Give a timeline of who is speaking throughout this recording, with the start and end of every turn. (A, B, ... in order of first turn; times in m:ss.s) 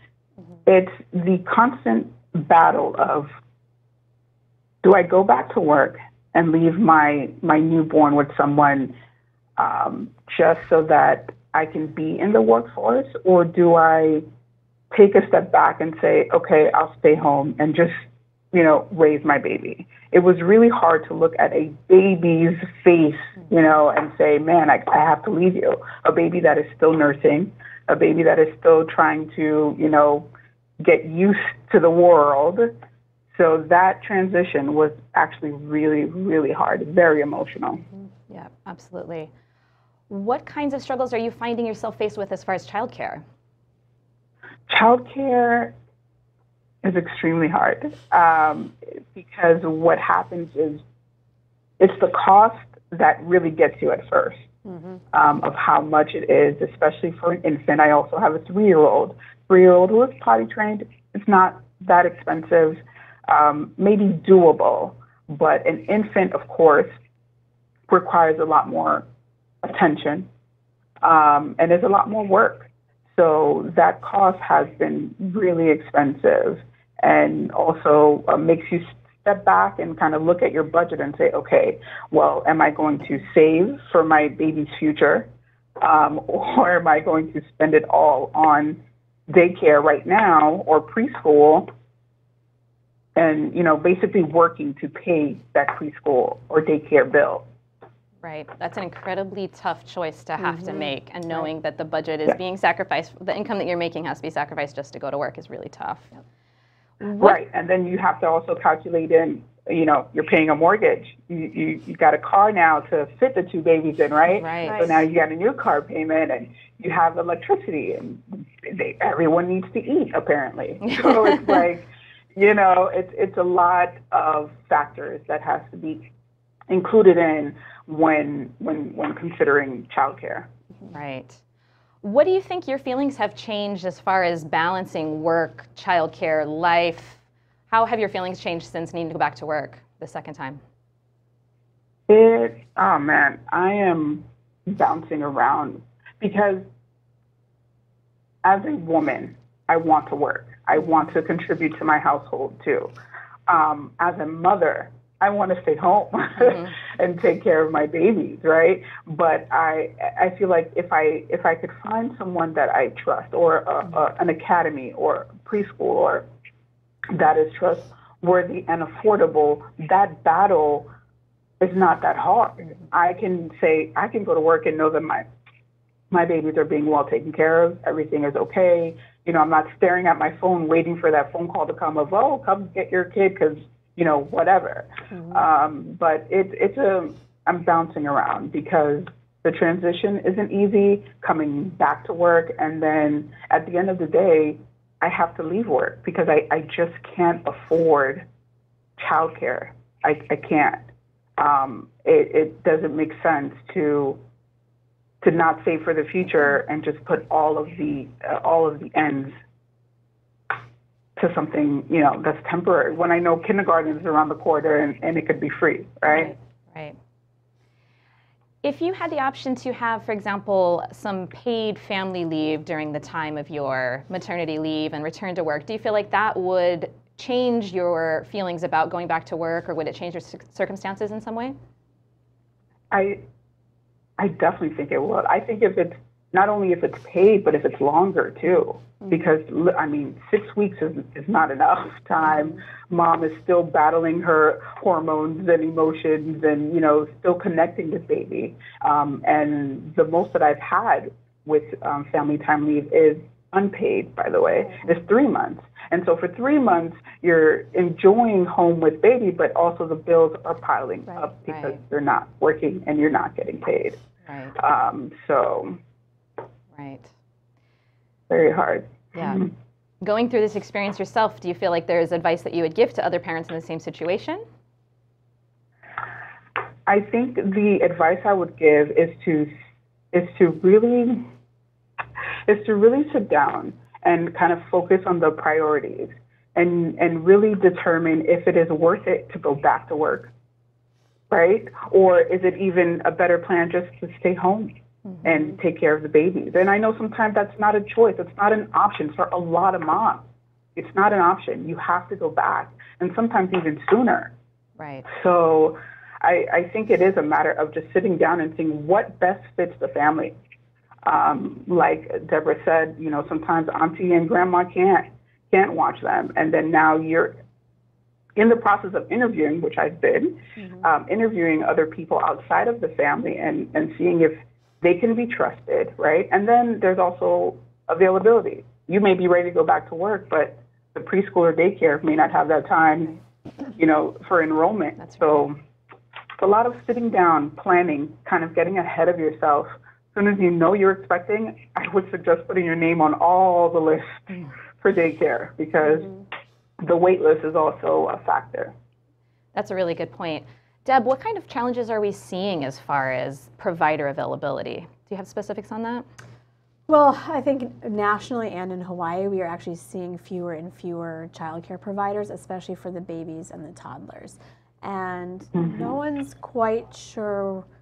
0:00.7-0:03.3 A
0:04.8-0:08.9 A
0:09.6-0:14.2 A
0:14.9-0:30.3 A
0:30.8-0:32.7 A
0:33.3-0:37.8 A
0:38.3-0:39.3 B
0:40.1-0:43.2 B
0:44.7-0:45.8 A
0:46.8-0:50.8 A
0:51.8-0:54.4 A
0:54.7-0:55.0 C
0:55.1-1:07.0 A
1:07.9-1:09.0 A
1:09.6-1:10.3 A
1:11.0-1:25.3 A
1:25.8-1:31.7 A
1:33.2-1:37.5 A
1:38.2-1:46.2 B
1:47.1-1:47.3 B
1:47.2-2:06.1 A
1:54.3-1:54.9 B
1:54.6-1:55.0 C
2:00.8-2:01.6 B
2:06.7-2:10.5 A
2:10.9-2:11.4 B
2:12.0-2:20.6 B
2:22.1-2:26.7 A
2:28.4-2:32.9 A
2:33.5-2:46.2 A
2:36.4-2:36.7 B
2:47.1-2:50.9 A
2:51.6-2:55.2 A
2:56.1-3:18.2 A
3:19.0-3:20.9 A
3:21.4-3:24.2 A
3:25.2-3:29.4 A
3:31.2-3:36.3 A
3:36.1-3:37.0 B
3:38.6-3:51.6 B
3:52.9-3:53.2 A
3:54.2-4:24.0 A
4:21.5-4:21.8 B
4:24.2-4:24.5 B
4:24.6-4:25.8 A
4:26.7-4:27.1 B
4:28.3-4:29.5 A
4:29.2-4:29.5 B
4:30.0-4:34.4 B
4:36.9-4:39.5 A
4:40.1-4:41.3 A
4:42.5-4:50.3 A
4:51.3-4:54.7 A
4:55.2-5:00.2 A
5:00.8-5:04.3 A
5:04.8-5:05.1 B
5:05.1-5:10.4 A
5:11.0-5:17.4 A
5:18.4-5:33.2 A
5:33.7-5:35.6 A
5:35.0-5:35.4 B
5:36.4-5:46.1 A
5:46.8-5:48.7 A
5:49.5-5:56.0 B
5:56.9-6:07.7 C